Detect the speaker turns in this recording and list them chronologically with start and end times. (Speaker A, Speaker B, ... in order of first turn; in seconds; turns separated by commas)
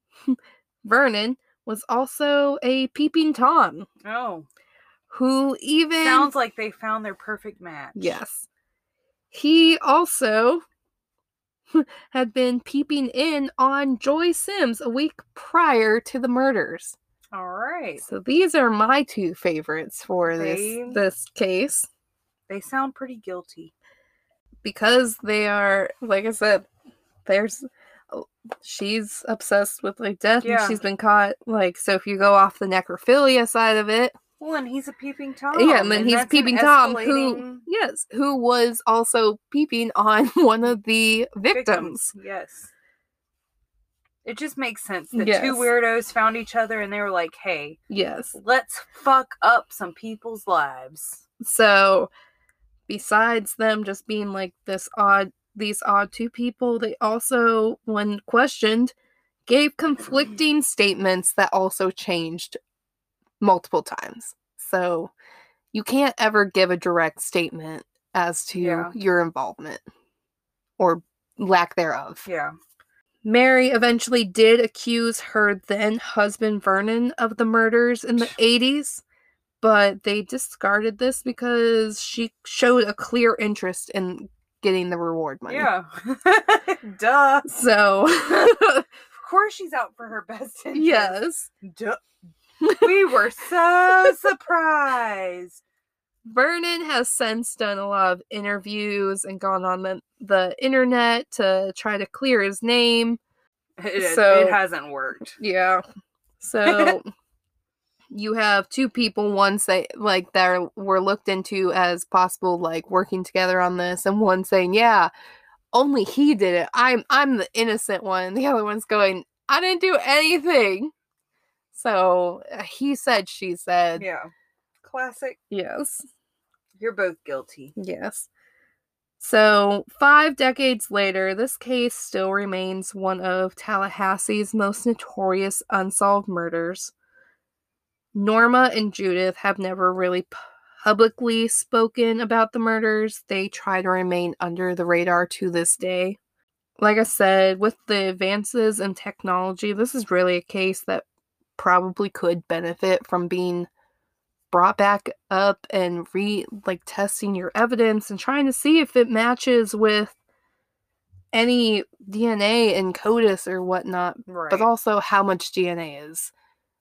Speaker A: 0.3-3.9, Speaker B: 4.0-4.5, Speaker A: 5.1-6.3, Speaker B: 6.0-8.2, Speaker A: 7.9-8.5, Speaker A: 9.3-10.6, Speaker A: 11.7-16.9, Speaker B: 17.3-18.0, Speaker A: 18.0-21.9, Speaker B: 20.3-21.0, Speaker B: 22.5-23.7, Speaker A: 24.6-26.7, Speaker A: 27.2-34.1, Speaker B: 30.4-30.8, Speaker B: 34.4-37.6, Speaker A: 35.5-42.1, Speaker B: 41.5-42.7, Speaker B: 44.2-47.8, Speaker A: 45.1-45.7, Speaker A: 47.9-48.3, Speaker B: 48.3-51.2, Speaker A: 51.4-52.1, Speaker A: 52.9-58.9, Speaker A: 59.5-62.6, Speaker A: 63.4-65.1, Speaker A: 65.7-69.8, Speaker B: 68.5-68.9, Speaker A: 70.8-72.2, Speaker B: 72.2-72.5, Speaker A: 73.2-79.0, Speaker A: 79.6-85.7, Speaker B: 85.5-87.5, Speaker A: 87.5-88.9, Speaker B: 89.1-92.0, Speaker A: 90.7-91.5, Speaker B: 92.8-95.6, Speaker A: 96.2-103.2, Speaker B: 103.8-105.3, Speaker A: 104.0-104.6, Speaker A: 105.4-105.8, Speaker A: 106.4-107.1, Speaker B: 106.6-107.0, Speaker A: 108.1-115.1, Speaker A: 115.7-120.9, Speaker A: 121.7-124.0, Speaker B: 124.0-124.3, Speaker B: 124.8-125.4, Speaker A: 125.5-126.0, Speaker B: 126.8-127.7, Speaker A: 127.8-128.3, Speaker A: 129.2-136.9, Speaker A: 138.1-146.2, Speaker A: 146.8-151.1, Speaker A: 151.6-153.7, Speaker A: 154.5-160.2, Speaker A: 161.3-166.3, Speaker B: 164.3-164.7